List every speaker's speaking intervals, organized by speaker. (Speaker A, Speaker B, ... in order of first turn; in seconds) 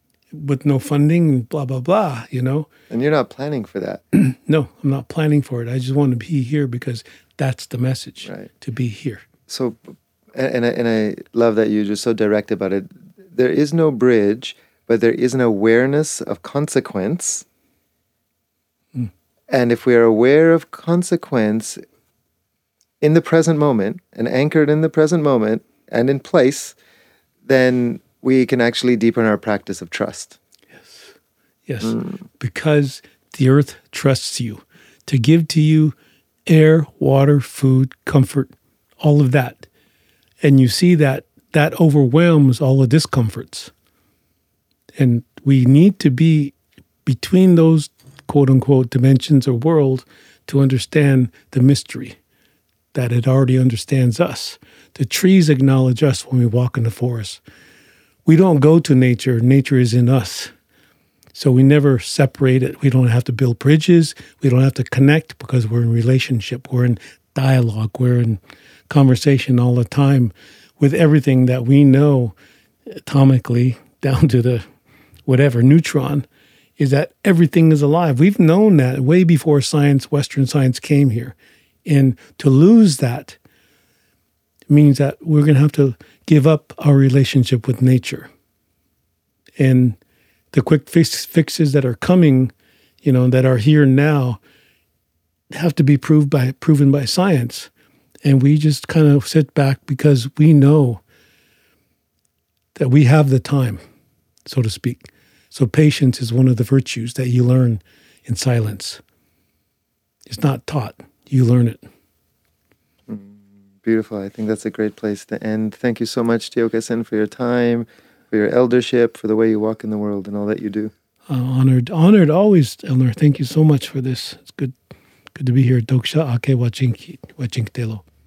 Speaker A: 0.3-2.7, 4.1-9.2, 30.8-31.1, 31.6-35.9, 36.5-39.7, 40.4-43.7, 45.0-46.5, 47.0-52.2, 52.9-57.4, 58.2-60.5, 61.3-72.3, 72.9-74.6, 75.2-76.2, 76.8-83.4, 84.7-88.3, 89.6-90.0, 90.5-92.5, 93.0-94.4, 95.5-97.7, 98.2-101.0, 102.7-103.8, 104.5-109.0, 110.3-111.8, 121.3-124.7, 125.3-128.0
Speaker B: 2.9-4.0, 9.5-17.4, 19.5-21.8, 23.0-26.8, 27.4-30.4, 113.1-120.9